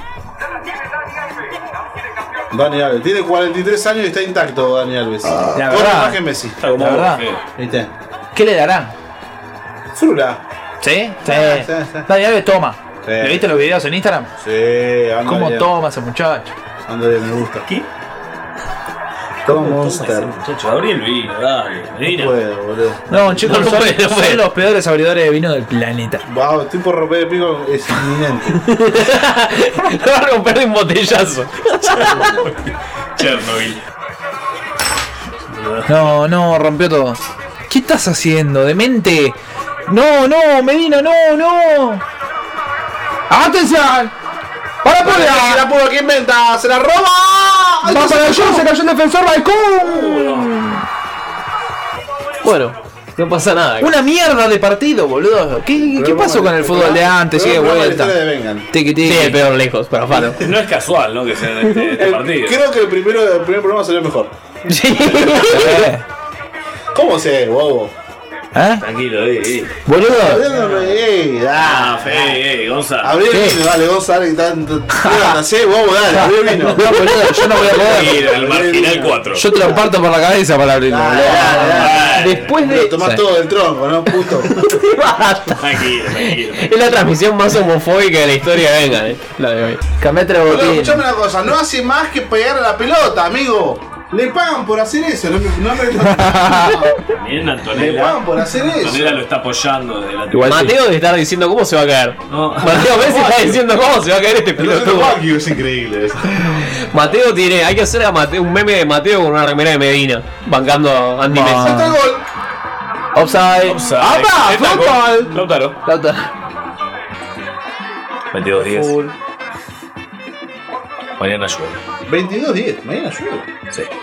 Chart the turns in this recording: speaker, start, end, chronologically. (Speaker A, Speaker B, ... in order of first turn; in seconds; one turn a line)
Speaker A: 2.5-6.6
Speaker B: 5.5-7.2
Speaker C: 6.6-7.4
Speaker A: 7.5-7.9
Speaker B: 8.3-8.9
Speaker A: 9.9-10.4
Speaker B: 10.8-14.3
Speaker A: 11.2-12.1
Speaker A: 13.0-13.6
Speaker A: 14.4-15.7
Speaker B: 15.2-16.5
Speaker A: 16.9-17.6
Speaker A: 19.4-20.4
Speaker C: 19.4-22.4
Speaker A: 22.1-23.4
Speaker B: 23.1-26.2
Speaker D: 23.4-24.4
Speaker A: 26.3-28.6
Speaker D: 28.6-32.4
Speaker C: 32.0-33.8
Speaker C: 35.5-36.0
Speaker B: 35.9-42.0
Speaker B: 43.3-44.1
Speaker B: 44.8-45.7
Speaker A: 45.0-48.6
Speaker B: 47.8-50.8
Speaker C: 49.8-50.5
Speaker D: 52.4-53.9
Speaker B: 53.8-58.2
Speaker A: 55.8-58.7
Speaker B: 58.7-59.4
Speaker D: 59.0-60.4
Speaker A: 60.1-60.4
Speaker C: 60.4-62.6
Speaker A: 62.0-64.3
Speaker D: 64.7-65.9
Speaker B: 65.3-66.0
Speaker A: 66.9-67.9
Speaker B: 68.5-68.8
Speaker C: 68.8-69.8
Speaker B: 69.8-70.5
Speaker A: 70.1-72.4
Speaker C: 70.6-71.0
Speaker C: 71.6-73.2
Speaker A: 73.0-77.0
Speaker B: 73.3-73.6
Speaker B: 75.0-75.4
Speaker B: 76.1-78.2
Speaker C: 77.5-79.5
Speaker A: 77.7-79.6
Speaker B: 79.3-82.0
Speaker A: 80.9-84.6
Speaker C: 81.5-82.5
Speaker D: 82.0-83.2
Speaker D: 84.5-85.6
Speaker C: 85.5-86.8
Speaker D: 86.1-89.8
Speaker B: 90.0-91.0
Speaker A: 90.4-96.9
Speaker B: 96.1-96.9
Speaker C: 97.1-100.7
Speaker A: 97.7-99.2
Speaker B: 100.3-100.8
Speaker D: 100.5-105.2
Speaker C: 102.3-103.6
Speaker A: 104.5-106.7
Speaker D: 106.9-111.8
Speaker B: 111.3-112.0
Speaker A: 111.4-112.2
Speaker B: 113.1-113.9
Speaker C: 113.6-115.8
Speaker A: 114.0-115.4
Speaker B: 115.8-116.3
Speaker C: 118.3-119.0
Speaker C: 121.2-121.8
Speaker A: 122.1-123.5